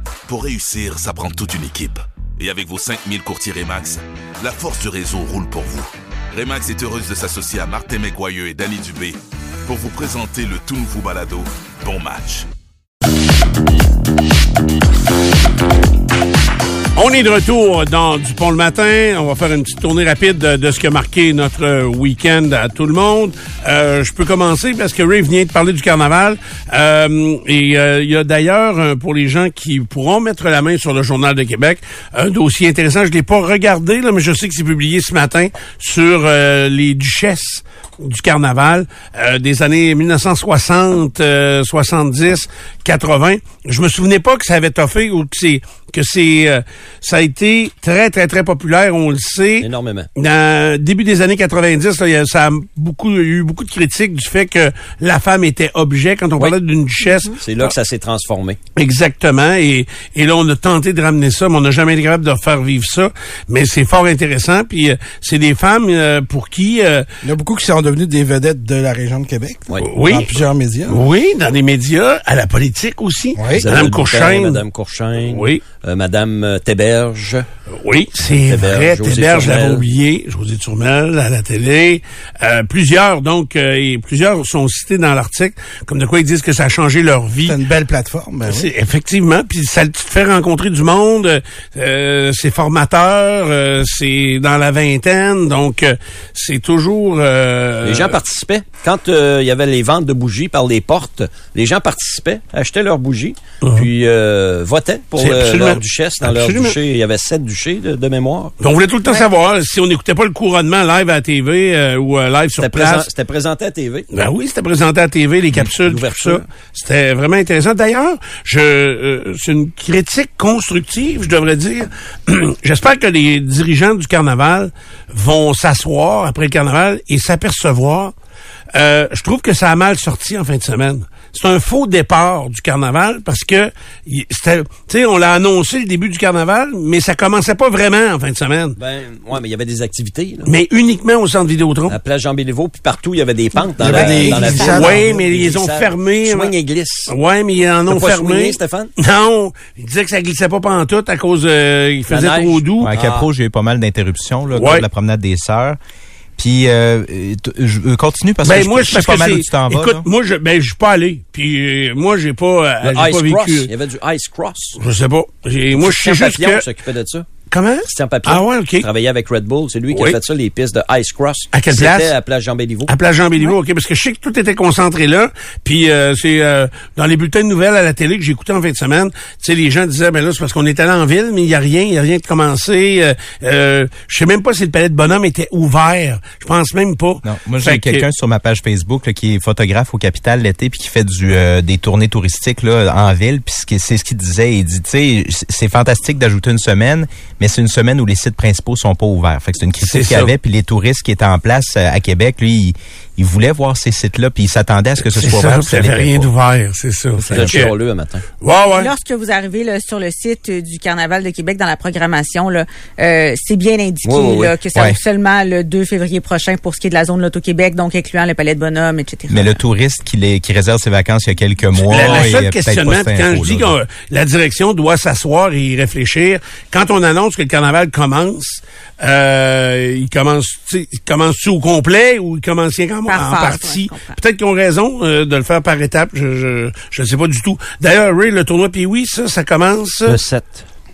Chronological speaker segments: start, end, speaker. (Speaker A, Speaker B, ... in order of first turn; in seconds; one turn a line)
Speaker A: 0.3-12.5
Speaker B: 17.0-57.7
Speaker C: 49.6-50.1
Speaker C: 57.4-58.6
Speaker B: 58.8-67.1
Speaker D: 67.2-71.0
Speaker B: 69.8-74.6
Speaker D: 73.4-73.7
Speaker C: 73.5-77.5
Speaker B: 75.2-75.6
Speaker B: 77.8-87.6
Speaker C: 78.4-79.8
Speaker D: 87.4-88.7
Speaker B: 88.5-98.2
Speaker C: 97.8-108.5
Speaker B: 105.2-106.8
Speaker B: 108.6-113.1
Speaker C: 112.6-114.1
Speaker B: 114.1-128.1
Speaker C: 115.8-116.5
Speaker B: 128.7-138.8
Speaker C: 138.8-140.5
Speaker B: 140.5-142.0
Speaker C: 141.9-147.1
Speaker D: 143.8-145.0
Speaker B: 143.8-146.5
Speaker E: 144.1-144.6
Speaker B: 147.1-152.9
Speaker C: 147.9-148.9
Speaker C: 152.1-153.3
Speaker F: 152.8-155.8
Speaker B: 154.5-154.8
Speaker F: 156.4-160.1
Speaker B: 158.4-163.7
Speaker C: 162.8-164.8
Speaker B: 164.8-166.6
Speaker C: 165.8-167.3
Speaker B: 167.5-168.9
Speaker C: 167.9-172.9
Speaker B: 169.9-170.2
Speaker B: 171.5-172.1
Speaker B: 172.9-188.1
Speaker F: 187.2-206.3
Speaker B: 199.8-200.3
Speaker B: 205.1-207.7
Speaker C: 207.2-208.2
Speaker B: 208.4-208.9
Speaker E: 208.7-219.6
Speaker C: 214.1-214.6
Speaker F: 219.3-223.8
Speaker B: 221.8-240.2
Speaker E: 233.1-234.2
Speaker C: 240.1-240.7